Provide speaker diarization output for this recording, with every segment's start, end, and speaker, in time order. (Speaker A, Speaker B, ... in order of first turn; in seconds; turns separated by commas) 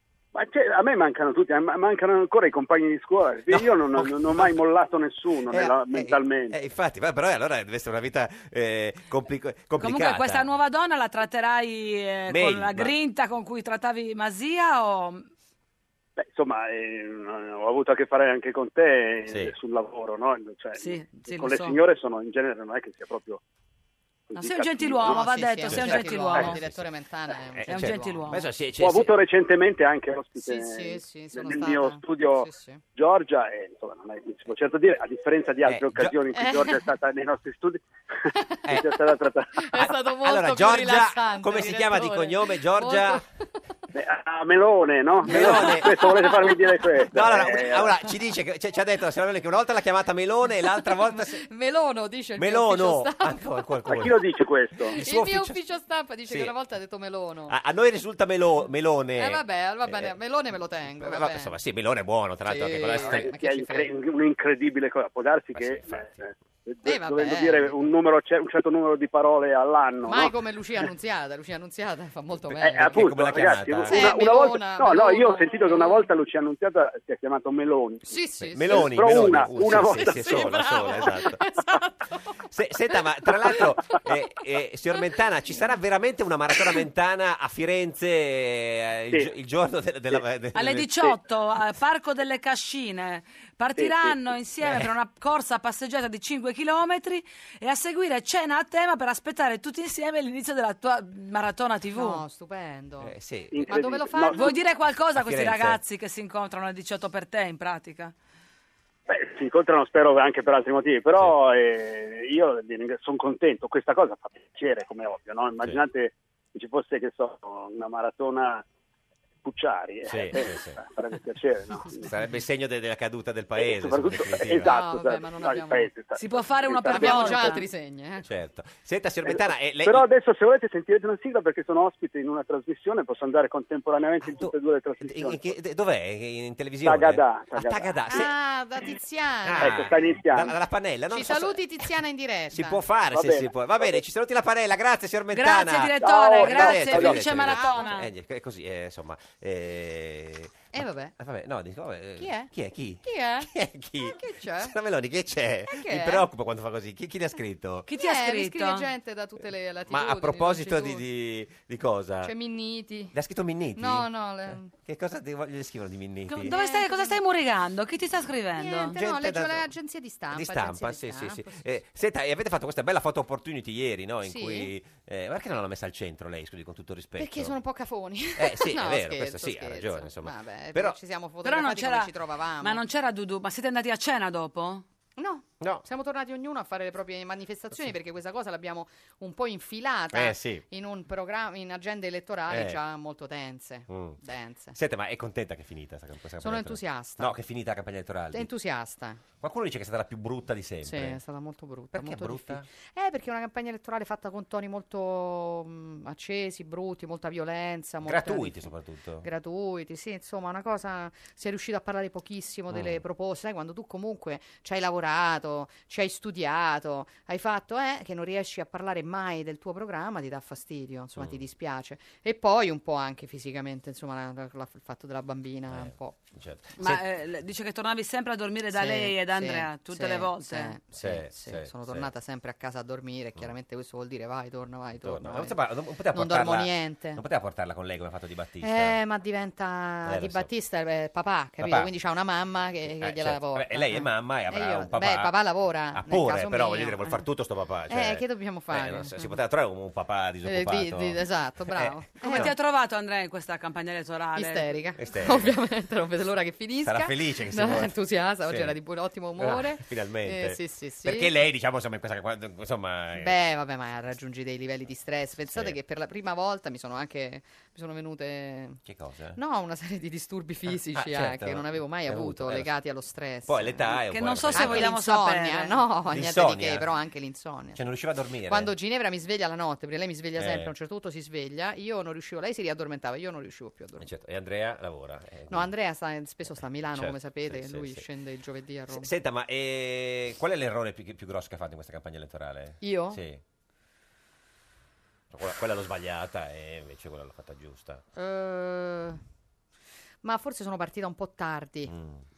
Speaker A: 0.3-6.5, Speaker B: 3.5-4.6, Speaker B: 5.5-10.5, Speaker C: 9.8-15.3, Speaker B: 12.3-12.9, Speaker A: 16.2-23.4, Speaker B: 19.3-19.6, Speaker C: 20.8-21.8, Speaker A: 24.3-25.2, Speaker C: 24.4-26.6, Speaker D: 25.0-28.3, Speaker B: 25.7-26.9, Speaker B: 27.5-29.2, Speaker C: 27.7-28.4, Speaker A: 28.8-39.7, Speaker D: 30.4-32.8, Speaker B: 35.6-36.1, Speaker D: 36.3-36.8, Speaker D: 38.4-38.9, Speaker D: 39.6-43.3, Speaker B: 39.7-43.2, Speaker A: 43.9-47.9, Speaker B: 45.2-51.4, Speaker D: 45.5-45.9, Speaker D: 50.8-54.1, Speaker B: 52.4-54.2, Speaker A: 53.9-55.0, Speaker B: 54.9-55.6, Speaker D: 54.9-57.6, Speaker B: 56.3-56.5, Speaker B: 57.5-60.1, Speaker D: 59.2-61.6, Speaker B: 61.0-63.3, Speaker D: 62.5-63.9, Speaker A: 63.0-70.4, Speaker B: 65.5-66.3, Speaker D: 66.8-67.8, Speaker D: 70.1-73.2, Speaker A: 72.6-78.2, Speaker B: 72.6-74.1, Speaker D: 73.8-76.1, Speaker D: 78.1-82.3, Speaker B: 78.4-81.4, Speaker A: 78.7-80.3, Speaker B: 82.5-91.2, Speaker C: 90.5-102.2, Speaker A: 93.8-94.2, Speaker B: 94.6-94.9, Speaker D: 102.0-104.5, Speaker B: 103.0-103.7, Speaker A: 103.5-104.5, Speaker C: 104.3-108.1, Speaker B: 105.1-105.8, Speaker A: 109.1-118.7, Speaker A: 119.4-122.1, Speaker B: 120.1-120.8, Speaker B: 122.0-124.7, Speaker A: 123.6-127.5, Speaker D: 124.6-125.9, Speaker C: 126.2-127.6, Speaker D: 126.9-128.3, Speaker B: 128.2-130.1, Speaker A: 129.3-135.5, Speaker B: 134.2-138.3, Speaker A: 136.8-138.1, Speaker D: 138.1-140.0, Speaker B: 139.4-141.7, Speaker A: 139.6-140.5, Speaker D: 141.1-142.8, Speaker B: 142.5-157.9, Speaker A: 143.1-143.9, Speaker C: 145.3-148.1, Speaker A: 146.0-147.3, Speaker D: 147.3-147.9, Speaker D: 150.7-151.1, Speaker D: 152.2-152.5, Speaker D: 153.0-154.7, Speaker D: 155.7-156.3, Speaker C: 157.9-158.9, Speaker D: 157.9-161.0, Speaker B: 159.9-162.3, Speaker D: 162.2-163.2, Speaker B: 163.1-166.6, Speaker D: 163.8-164.7, Speaker C: 166.3-169.0, Speaker D: 166.5-167.2, Speaker D: 168.6-171.6, Speaker B: 168.9-169.7, Speaker B: 170.3-177.6, Speaker D: 174.2-174.7, Speaker D: 177.2-182.8, Speaker B: 178.4-181.0, Speaker C: 181.4-184.8, Speaker D: 185.2-194.8, Speaker B: 185.6-185.8, Speaker B: 190.1-190.6, Speaker B: 192.5-192.8, Speaker B: 193.9-194.2, Speaker B: 194.8-198.5, Speaker D: 196.4-197.4, Speaker D: 198.3-199.2, Speaker B: 199.4-201.2, Speaker D: 200.8-208.7, Speaker B: 201.9-202.7, Speaker B: 208.1-209.3, Speaker D: 209.2-226.2, Speaker B: 212.7-213.0, Speaker B: 225.7-227.0, Speaker C: 226.8-230.7, Speaker D: 228.7-235.6, Speaker B: 231.0-232.1, Speaker B: 235.0-239.0, Speaker D: 236.1-237.2, Speaker D: 238.6-247.2, Speaker B: 240.1-240.5, Speaker B: 241.6-241.9, Speaker B: 242.9-245.4, Speaker B: 245.9-252.5, Speaker D: 247.9-249.3, Speaker D: 250.4-252.5, Speaker C: 252.2-254.7, Speaker D: 254.3-261.3, Speaker B: 255.0-255.6, Speaker B: 256.8-258.8, Speaker B: 259.4-263.4, Speaker D: 263.2-268.8, Speaker B: 265.5-265.8, Speaker B: 268.9-269.4, Speaker D: 269.4-277.9, Speaker B: 270.7-272.7, Speaker B: 273.5-275.0, Speaker C: 274.1-275.8, Speaker B: 276.1-276.9, Speaker B: 277.8-278.7, Speaker D: 278.5-284.1, Speaker B: 280.4-280.7, Speaker B: 284.0-285.7, Speaker D: 285.5-289.1, Speaker B: 286.9-288.1, Speaker B: 288.9-293.4, Speaker D: 292.8-293.2, Speaker B: 295.3-298.0, Speaker D: 298.1-299.2, Speaker D: 300.2-301.9, Speaker B: 301.9-302.2